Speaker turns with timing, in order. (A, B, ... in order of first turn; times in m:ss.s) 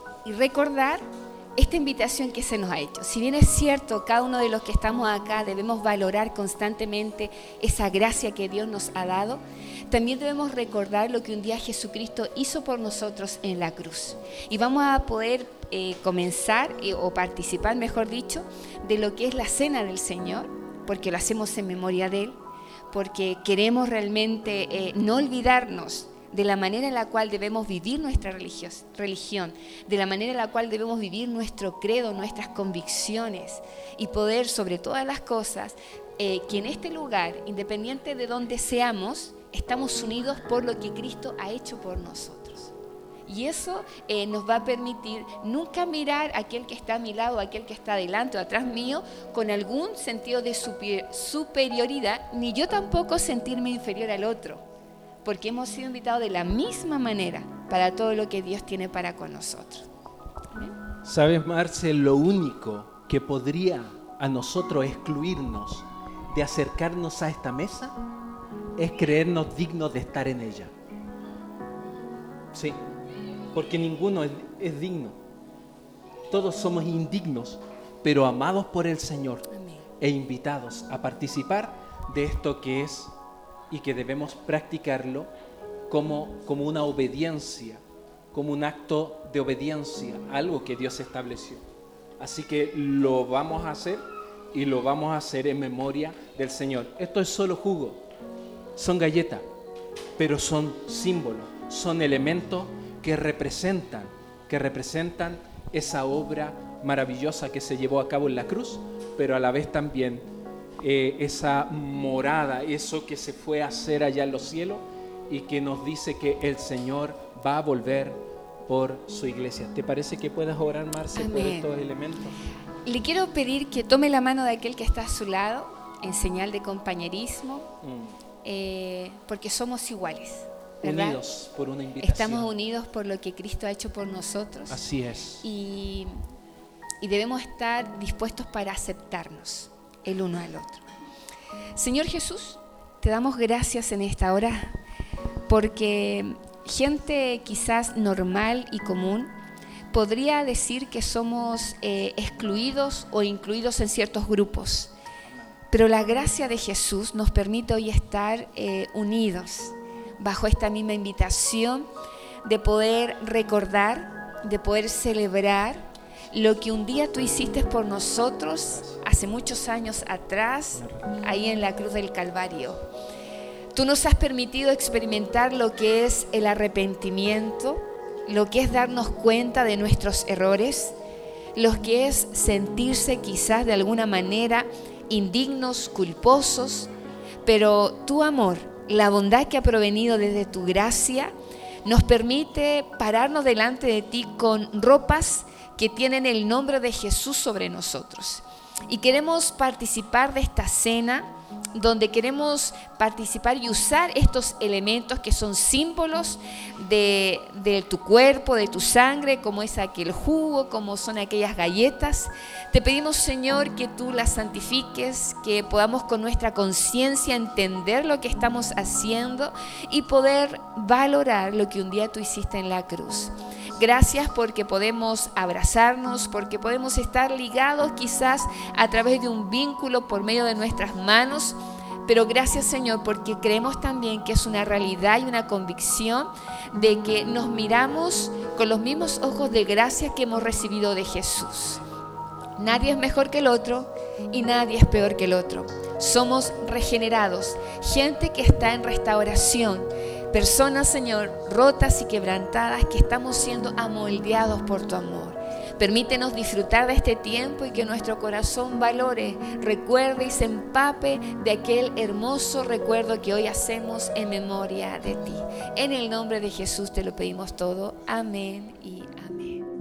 0:00.2-0:01.1 A
0:01.6-0:22.4 A
0:22.9-0:42.7 A
0:43.3-0:54.6 A
0:55.2-0:59.9 A
1:01.0-1:08.0 B
1:08.8-1:10.7 B
1:12.5-1:12.8 B
1:13.5-1:15.2 B
1:16.3-1:23.1 B
1:19.5-1:19.9 A
1:23.7-1:25.3 B
1:25.9-1:27.8 B
1:28.3-1:31.6 B
1:32.2-1:34.0 B
1:34.5-1:38.0 B
1:38.8-1:39.4 B
1:40.2-1:50.3 B
1:50.8-2:02.4 B
2:01.2-2:01.7 A
2:02.8-2:07.7 A
2:07.8-2:08.2 B
2:08.4-2:11.2 A
2:10.8-2:12.5 B
2:12.0-2:14.8 A
2:14.7-2:15.4 B
2:15.4-2:16.2 A
2:17.0-2:20.9 A
2:21.8-2:24.8 A
2:25.5-2:29.4 A
2:29.9-2:34.9 A
2:35.7-2:41.9 A
2:42.4-2:52.8 A
2:53.7-3:01.0 A
3:01.6-3:06.9 A
3:07.4-3:11.3 A
3:11.8-4:01.8 A
4:02.6-4:29.6 A